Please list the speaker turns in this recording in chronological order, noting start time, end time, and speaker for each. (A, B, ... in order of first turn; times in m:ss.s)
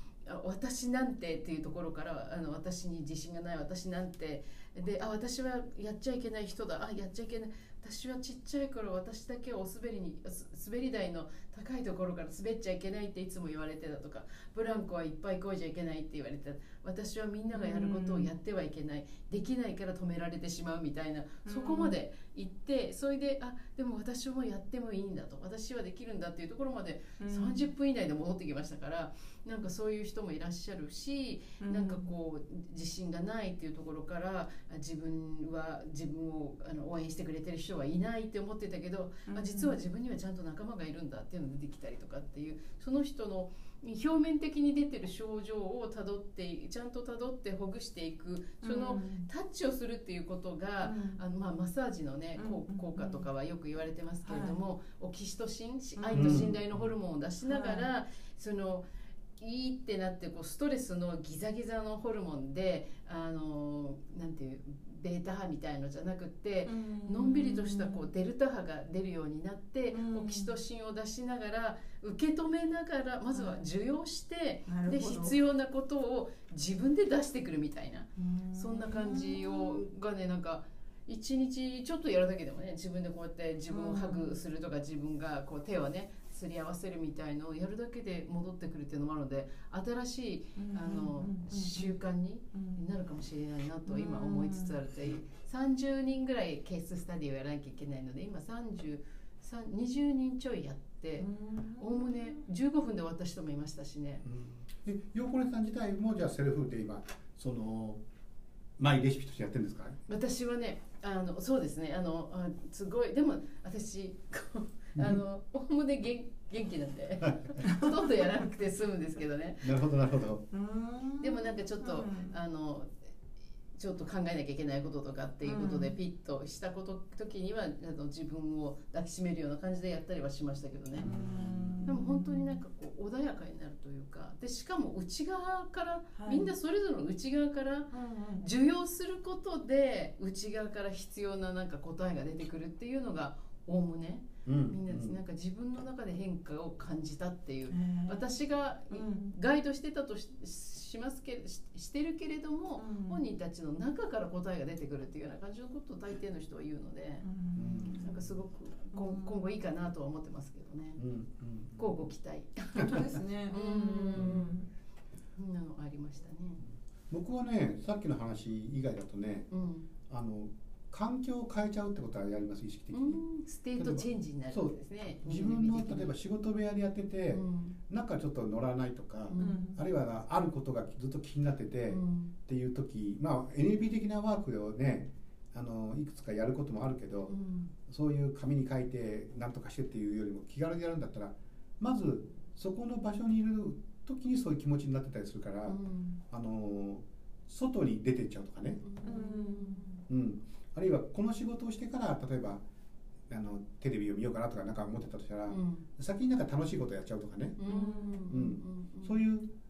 0:00.2-0:58.8 A
0:17.5-0:18.3 B
0:21.4-0:21.9 B
0:27.2-0:27.6 B
0:31.6-0:32.1 B
0:39.3-0:39.7 B
0:48.6-0:49.3 B
0:50.8-0:51.2 B
0:52.4-0:53.2 B
0:54.2-0:54.6 B
0:56.0-0:56.5 B
0:56.1-0:56.9 C
0:57.4-0:57.9 B
0:59.4-1:44.2 A
1:06.6-1:08.0 B
1:09.9-1:10.5 B
1:13.3-1:13.6 B
1:14.7-1:15.4 B
1:18.2-1:19.8 B
1:23.7-1:24.3 B
1:30.6-1:32.0 B
1:32.5-1:32.8 B
1:33.8-1:34.8 B
1:41.2-1:42.4 B
1:44.2-1:48.0 C
1:48.8-1:50.0 C
1:50.1-1:59.8 A
1:57.2-1:57.6 C
1:57.6-1:58.3 B
1:59.6-2:00.4 C
2:00.5-2:02.3 B
2:01.2-2:02.9 A
2:03.8-2:11.1 A
2:05.4-2:05.9 B
2:11.0-2:12.6 B
2:11.0-2:11.9 C
2:11.8-2:37.2 A
2:16.2-2:16.5 B
2:17.9-2:18.4 B
2:24.4-2:25.2 C
2:27.7-2:28.3 B
2:28.9-2:29.3 B
2:32.8-2:33.2 B
2:37.2-2:38.1 B
2:37.6-2:38.3 C
2:37.9-2:41.0 A
2:38.9-2:39.4 B
2:41.0-2:42.1 C
2:41.8-2:44.6 A
2:42.8-2:44.7 B
2:45.4-2:46.6 A
2:47.1-2:49.5 C
2:49.5-2:49.9 A
2:50.1-2:53.2 C
2:52.9-2:56.1 A
2:53.8-3:07.3 C
2:57.3-2:57.8 A
2:59.3-2:59.6 A
2:59.4-2:59.8 B
3:01.9-3:02.3 A
3:07.3-3:07.7 A
3:07.9-3:15.8 C
3:15.7-3:16.2 A
3:16.3-3:18.8 C
3:18.8-3:19.9 A
3:19.0-3:19.9 B
3:20.1-3:22.6 C
3:23.3-3:27.6 C
3:25.5-3:25.8 A
3:27.6-3:29.2 A
3:27.6-3:28.3 B
3:28.3-3:29.5 C